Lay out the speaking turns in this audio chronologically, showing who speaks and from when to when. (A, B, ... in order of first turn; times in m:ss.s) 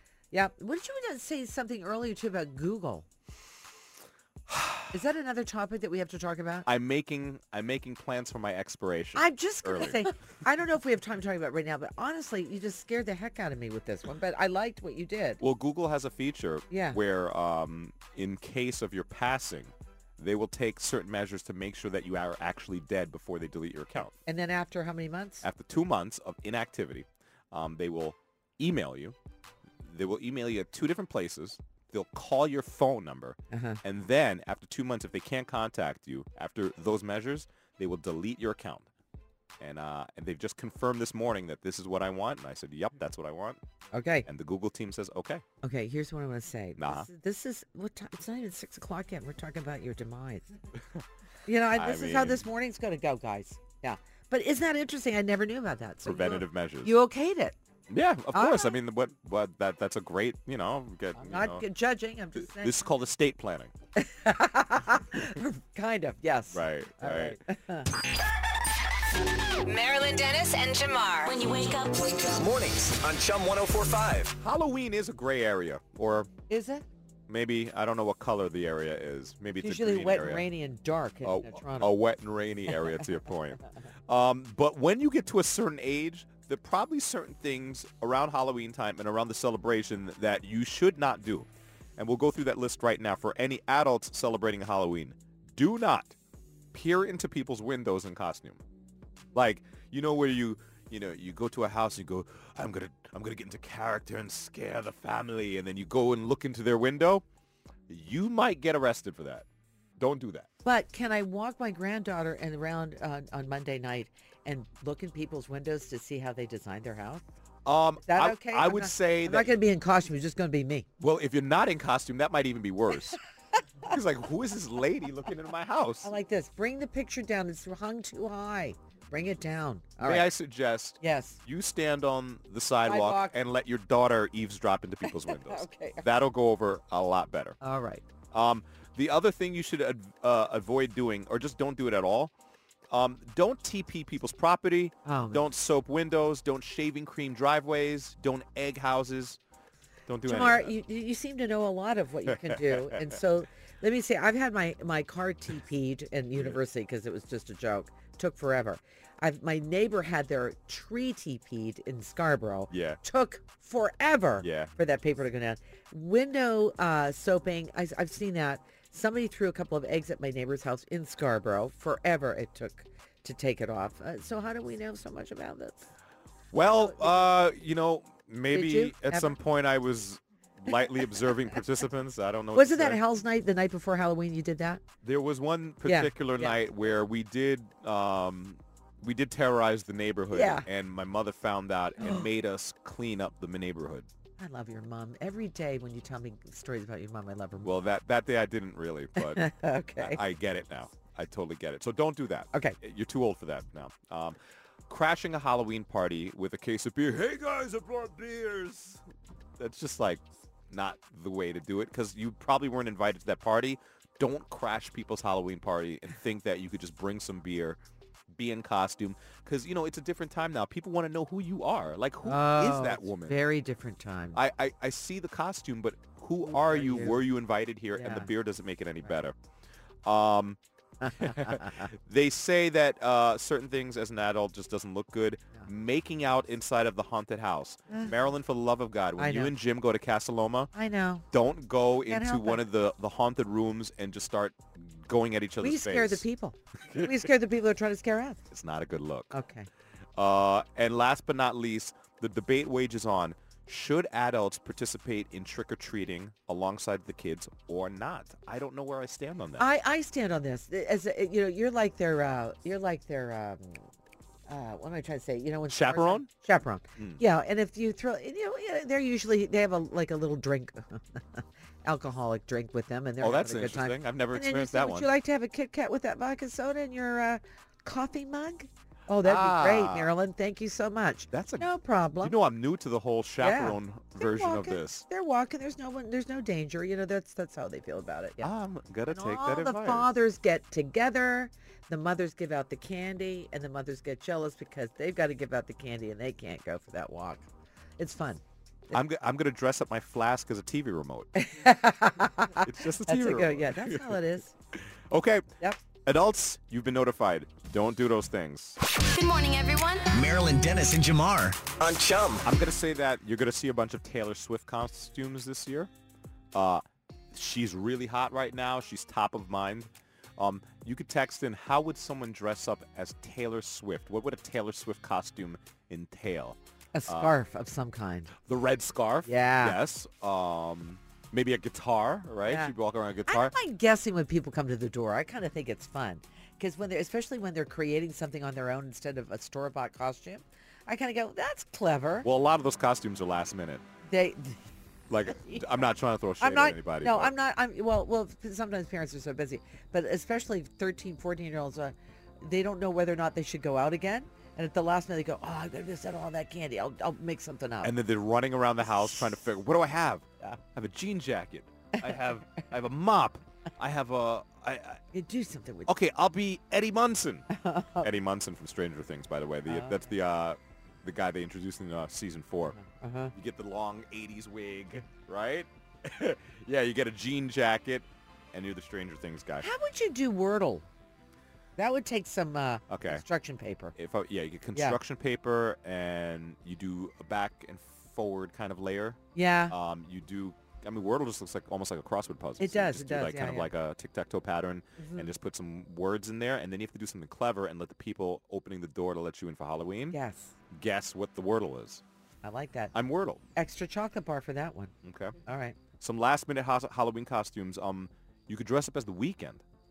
0:00.3-0:03.0 A
0:04.5-0:04.9 B
0:04.9-0:06.7 A
0:06.6-0:10.1 B
0:09.1-0:15.4 A
0:15.4-0:24.1 B
0:16.7-0:17.0 A
0:24.2-0:25.4 A
0:25.4-0:29.2 B
0:29.8-0:38.9 B
0:33.5-0:33.8 A
0:39.6-0:43.6 B
0:43.9-0:44.3 A
0:44.2-0:45.4 B
0:45.6-0:50.5 A
0:46.8-0:47.1 B
0:51.4-0:57.6 A
0:51.7-0:52.4 B
0:56.0-0:56.9 B
0:57.9-1:01.6 B
0:58.3-0:58.8 A
1:01.2-1:02.8 A
1:02.4-1:03.7 B
1:04.0-1:07.9 A
1:06.5-1:07.4 B
1:09.6-1:12.0 C
1:12.1-1:14.3 D
1:14.4-1:16.3 B
1:16.5-1:16.8 A
1:17.3-1:20.5 B
1:19.6-1:21.9 A
1:21.2-1:36.2 B
1:36.7-1:38.6 B
1:39.3-1:47.2 B
1:47.9-1:49.4 B
1:50.0-1:50.5 B
1:50.6-1:57.2 A
1:57.6-1:59.6 B
1:58.0-2:00.8 A
2:01.0-2:03.2 B
2:03.8-2:06.1 B
2:06.0-2:10.3 A
2:10.0-2:17.6 B
2:11.0-2:11.4 A
2:12.8-2:13.4 A
2:15.0-2:16.0 A
2:17.6-2:18.0 A
2:18.3-2:22.3 B
2:22.9-2:29.4 B
2:25.0-2:25.4 A
2:30.1-2:30.7 B
2:30.2-2:55.9 A
2:32.3-2:33.2 B
2:42.7-2:43.0 B
2:44.4-2:44.7 B
2:56.5-3:03.0 B
2:56.8-2:57.3 A
2:58.5-2:59.4 A
3:02.5-3:04.8 A
3:05.0-3:14.1 B
3:05.8-3:06.6 A
3:10.3-3:10.7 A
3:12.0-3:12.3 A
3:14.4-3:17.7 A
3:17.6-3:29.0 B
3:19.2-3:20.2 A
3:29.6-3:37.8 B
3:38.3-3:43.4 B
3:42.2-3:44.4 A
3:44.3-3:49.3 B
3:46.4-3:47.2 A
3:47.9-3:48.3 A
3:50.0-3:50.6 B
3:51.0-3:51.9 A
3:51.2-4:00.7 B
3:59.2-3:59.5 A
4:00.7-4:01.2 A
4:01.3-4:06.2 B
4:02.1-4:02.6 A
4:05.6-4:08.4 A
4:06.9-4:07.3 B
4:08.5-4:09.4 B
4:09.3-4:09.7 A
4:10.2-4:19.7 B
4:19.6-4:23.8 A
4:24.5-4:42.4 A
4:25.7-4:26.3 B
4:33.2-4:35.1 B
4:39.2-4:40.1 B
4:41.3-4:41.7 B
4:42.2-4:45.0 B
4:43.4-4:48.5 A
4:48.4-4:50.1 B
4:49.1-4:57.5 A
4:58.0-4:59.0 A
4:58.9-5:01.3 B
5:01.4-5:04.5 A
5:02.6-5:04.2 B
5:04.8-5:05.5 B
5:06.0-5:08.8 B
5:09.1-5:10.1 C
5:10.1-5:12.4 D
5:12.4-5:15.9 B
5:16.5-5:27.3 B
5:26.9-5:28.3 A
5:28.4-5:33.6 B
5:29.3-5:29.8 A
5:32.5-5:32.7 A
5:33.3-5:42.3 A
5:42.2-5:43.8 B
5:44.0-5:44.6 A
5:45.1-5:47.3 B
5:45.3-5:45.6 A
5:46.4-5:58.0 A
5:57.8-6:05.0 B
5:59.0-5:59.2 A
6:05.1-6:05.9 A
6:05.9-6:07.5 B
6:07.5-6:08.1 A
6:08.0-6:12.8 B
6:09.7-6:10.0 A
6:12.7-6:13.3 A
6:13.3-6:19.7 B
6:19.6-6:20.8 A
6:21.8-6:23.9 A
6:22.9-6:23.2 B
6:24.0-6:40.2 B
6:29.3-6:29.7 A
6:32.6-6:33.7 A
6:35.0-6:35.3 A
6:40.1-6:40.5 A
6:40.7-6:42.0 B
6:42.4-6:42.9 A
6:42.9-6:43.4 B
6:43.5-6:44.9 A
6:45.0-6:45.4 B
6:45.4-6:45.8 A
6:46.0-6:49.6 B